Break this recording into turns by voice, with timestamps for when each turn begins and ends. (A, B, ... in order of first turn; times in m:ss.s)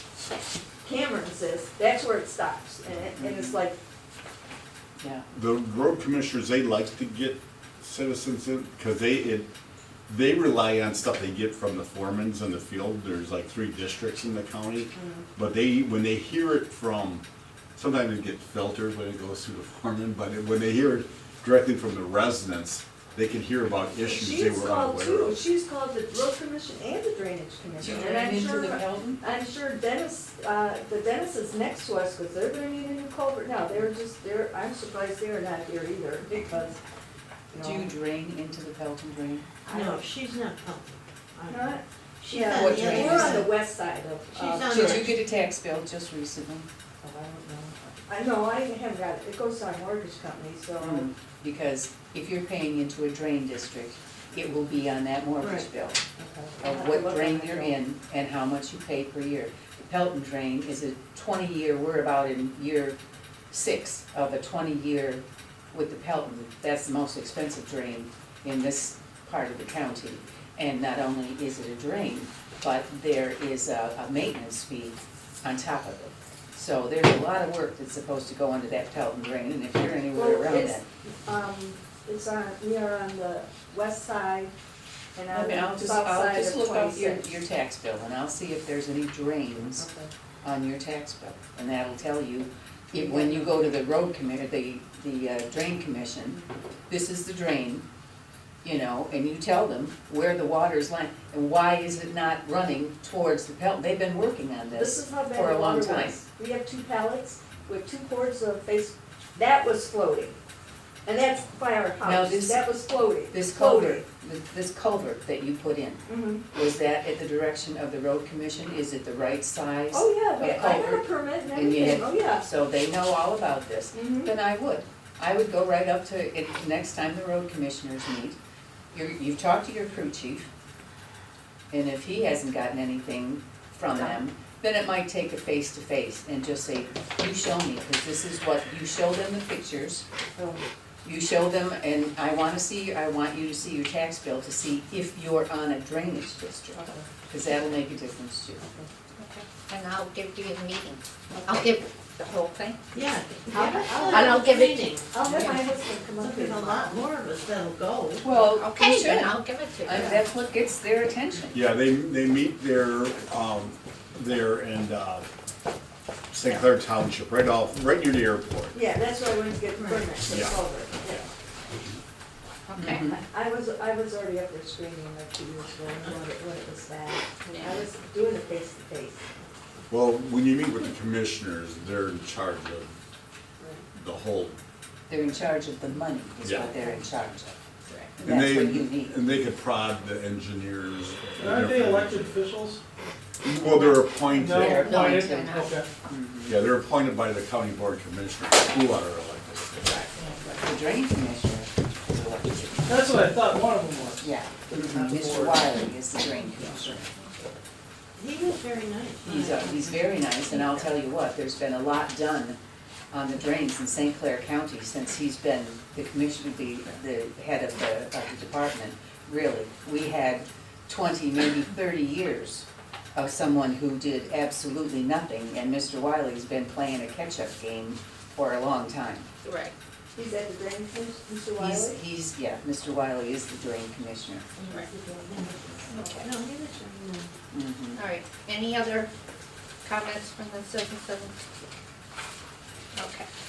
0:00.8-0:03.8 A
0:03.2-0:03.6 B
0:05.0-0:05.3 B
0:05.3-0:09.5 C
0:10.1-0:17.2 C
0:15.0-0:15.3 A
0:17.8-0:25.4 C
0:24.0-0:36.8 A
0:27.8-0:29.2 B
0:37.5-0:37.9 A
0:37.6-0:39.5 B
0:39.7-0:43.5 D
0:39.7-0:40.0 A
0:41.5-0:45.1 A
0:42.6-0:43.5 B
0:44.3-0:45.2 D
0:44.7-0:46.7 B
0:47.0-0:51.1 A
0:50.8-0:56.0 B
0:55.4-0:57.8 A
0:56.6-1:03.0 B
1:03.5-1:20.8 B
1:20.1-1:24.5 A
1:25.2-1:27.3 A
1:25.3-1:29.9 B
1:29.8-1:30.1 A
1:30.4-1:37.8 B
1:32.9-1:33.6 A
1:38.6-1:46.2 B
1:44.7-1:50.4 A
1:51.0-1:54.0 A
1:52.0-1:52.7 B
1:53.3-2:08.4 B
1:56.1-1:56.4 A
1:59.9-2:02.4 A
2:03.9-2:04.3 A
2:08.9-2:10.5 B
2:11.7-2:20.0 B
2:13.9-2:14.2 A
2:20.4-2:20.7 A
2:21.0-2:28.6 B
2:26.7-2:27.1 A
2:28.6-2:28.9 A
2:29.2-2:32.8 E
2:31.4-2:31.7 A
2:32.9-2:35.6 D
2:33.4-2:34.9 E
2:33.5-2:34.4 A
2:35.1-2:37.0 A
2:36.2-2:38.4 D
2:38.2-2:41.6 B
2:38.4-2:40.1 E
2:39.9-2:40.2 A
2:41.5-2:45.3 C
2:46.3-2:48.8 C
2:48.7-2:51.3 A
2:50.3-2:51.2 C
2:52.7-2:53.1 E
2:52.8-2:53.2 B
2:52.9-2:59.5 A
2:57.5-2:57.8 E
2:59.9-3:02.9 C
3:03.6-3:03.8 A
3:04.0-3:04.6 C
3:05.1-3:07.6 B
3:06.4-3:06.7 C
3:06.7-3:07.0 A
3:08.2-3:09.2 B
3:08.2-3:12.3 C
3:11.4-3:12.8 F
3:13.4-3:14.9 C
3:13.7-3:15.5 B
3:14.3-3:15.9 F
3:14.8-3:15.8 E
3:16.1-3:16.6 B
3:16.5-3:20.0 C
3:20.6-3:23.1 B
3:22.8-3:25.8 F
3:24.2-3:27.1 B
3:28.2-3:30.2 D
3:29.2-3:32.6 B
3:33.1-3:49.3 B
3:49.4-3:49.7 E
3:50.2-3:52.0 A
3:51.6-3:54.5 B
3:54.6-3:56.3 A
3:55.3-3:55.6 D
3:55.9-3:56.2 E
3:56.2-3:57.3 D
3:57.5-3:58.0 B
3:58.0-3:59.1 E
3:59.8-4:01.3 E
4:03.0-4:03.3 E